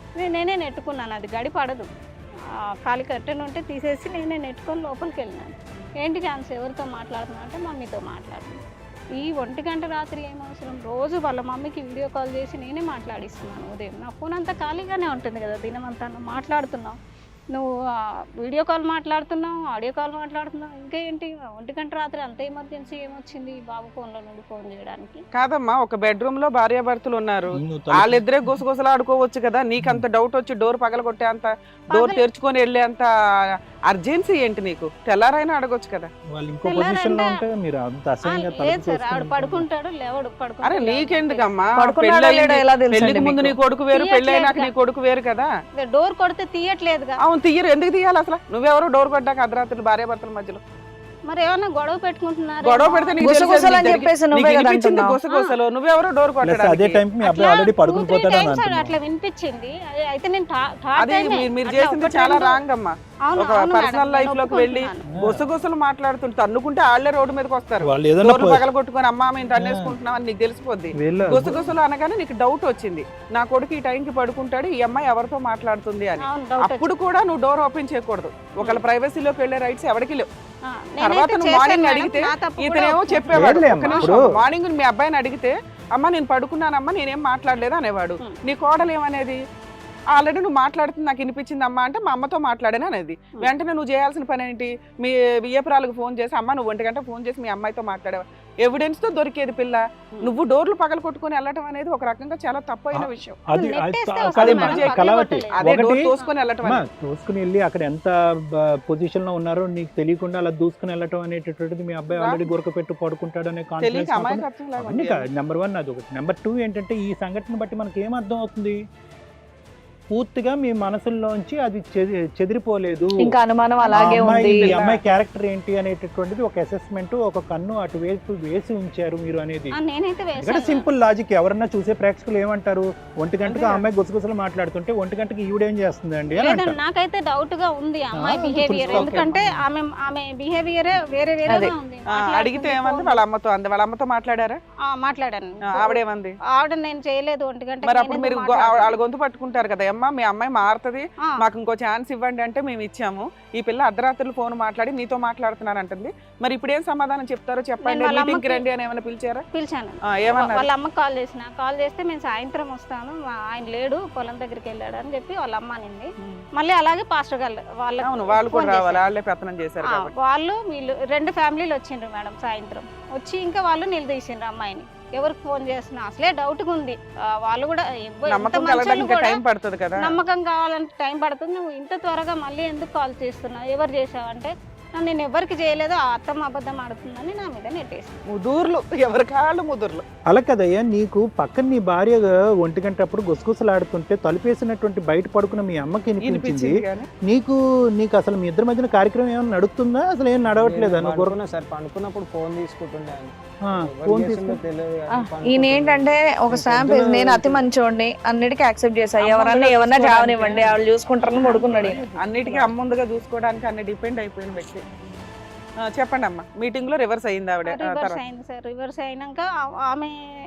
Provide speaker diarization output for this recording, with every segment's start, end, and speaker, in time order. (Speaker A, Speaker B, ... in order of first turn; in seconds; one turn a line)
Speaker A: 0.2-1.9
Speaker A: 2.9-8.6
Speaker A: 9.2-16.9
Speaker A: 18.4-25.2
Speaker B: 25.3-33.1
Speaker C: 27.6-28.6
Speaker A: 31.9-32.2
Speaker B: 33.9-36.1
Speaker C: 36.3-39.6
Speaker A: 36.6-37.4
Speaker A: 38.3-41.5
Speaker B: 40.6-45.5
Speaker D: 41.8-43.5
Speaker A: 43.9-44.7
Speaker A: 45.8-47.2
Speaker B: 47.2-50.6
Speaker A: 51.3-54.0
Speaker B: 52.6-57.0
Speaker D: 53.2-55.2
Speaker C: 56.4-59.0
Speaker A: 57.2-62.6
Speaker B: 61.0-80.3
Speaker A: 63.3-65.0
Speaker C: 65.2-65.4
Speaker C: 67.8-68.6
Speaker C: 69.6-70.0
Speaker C: 71.0-71.8
Speaker A: 76.2-76.9
Speaker A: 80.7-84.1
Speaker B: 81.0-89.4
Speaker C: 83.3-84.2
Speaker B: 90.1-103.3
Speaker C: 102.9-106.1
Speaker A: 103.5-106.3
Speaker B: 104.4-105.0
Speaker B: 105.6-106.9
Speaker C: 106.6-118.8
Speaker B: 112.2-112.5
Speaker B: 113.8-115.2
Speaker C: 120.1-123.4
Speaker D: 123.2-124.7
Speaker C: 123.9-129.7
Speaker B: 123.9-125.0
Speaker A: 129.7-130.9
Speaker C: 130.4-136.8
Speaker B: 133.4-133.9
Speaker A: 136.4-143.2
Speaker C: 138.2-139.6
Speaker B: 138.8-139.3
Speaker D: 141.5-141.7
Speaker B: 142.1-144.6
Speaker A: 144.8-146.0
Speaker B: 145.7-146.3
Speaker A: 146.5-148.9
Speaker B: 147.8-159.4
Speaker A: 157.8-158.6
Speaker A: 159.5-169.0
Speaker B: 160.1-160.7
Speaker B: 168.0-170.1
Speaker A: 169.9-179.4
Speaker B: 178.3-180.2
Speaker A: 180.0-188.2
Speaker B: 188.3-190.0
Speaker C: 190.3-201.3
Speaker B: 196.2-197.1
Speaker E: 200.6-207.7
Speaker C: 203.7-204.6
Speaker D: 205.1-212.0
Speaker B: 209.2-210.8
Speaker C: 211.3-212.7
Speaker B: 212.2-215.1
Speaker B: 215.9-218.2
Speaker A: 217.7-220.1